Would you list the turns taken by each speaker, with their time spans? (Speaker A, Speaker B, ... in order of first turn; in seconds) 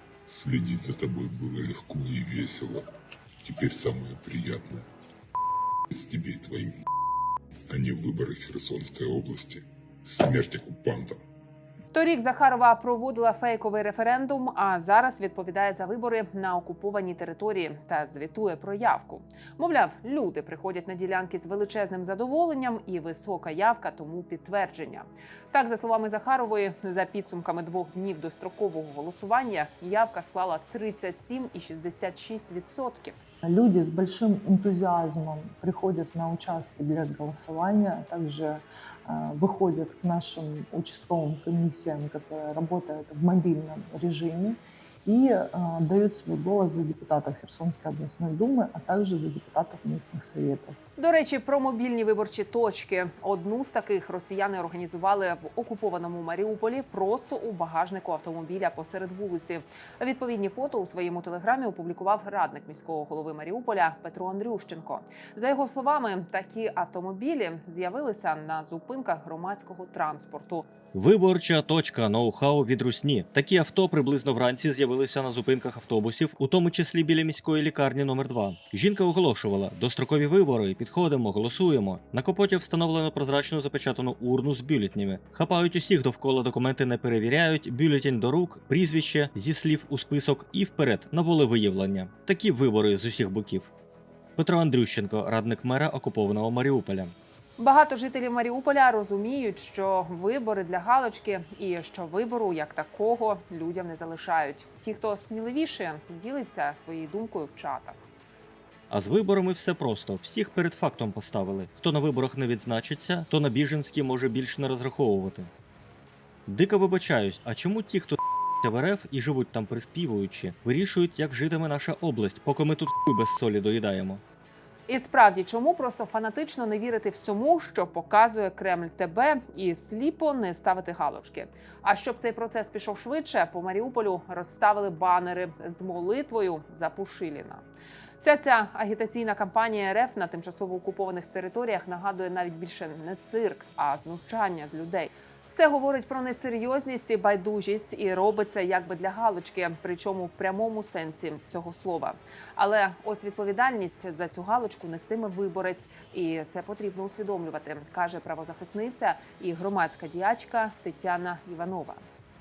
Speaker A: 0.3-2.9, 3.4-4.8, 5.9-6.7, 7.7-11.2
Speaker B: 11.9-33.2, 51.0-70.7, 97.6-108.0, 124.9-137.6, 138.2-162.0
Speaker C: 33.5-50.8
Speaker D: 70.9-93.7, 94.4-97.1, 108.9-115.5, 116.5-124.2